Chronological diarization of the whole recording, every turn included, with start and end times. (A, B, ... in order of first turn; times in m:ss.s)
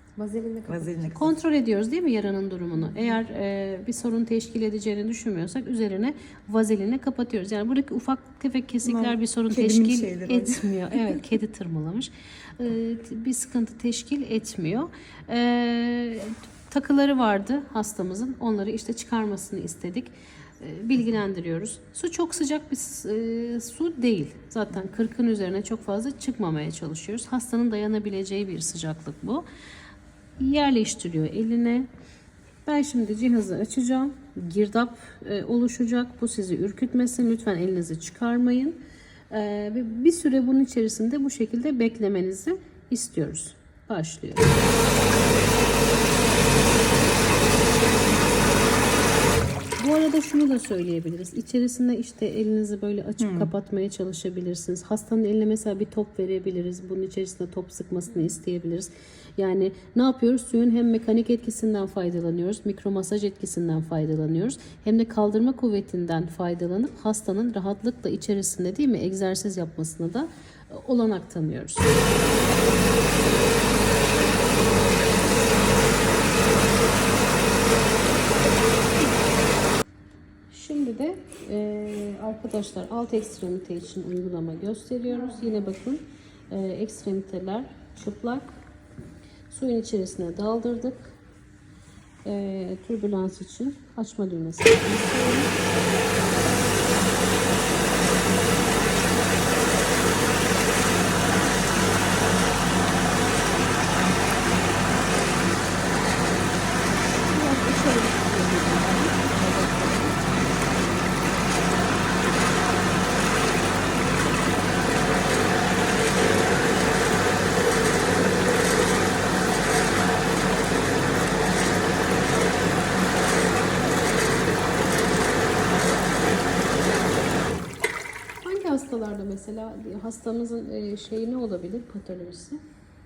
0:00.2-0:00.8 A
0:00.7-0:01.4 B
0:01.1-0:29.4 C
0:08.8-0:11.2 B
0:30.4-0:31.9 C
0:32.6-0:38.8 C
0:39.3-0:44.6 C
0:49.8-1:12.0 C
0:53.2-0:53.5 B
1:20.5-1:28.6 C
1:29.5-1:31.2 C
1:32.2-1:35.5 C
1:47.3-1:50.1 A
2:08.4-2:12.6 C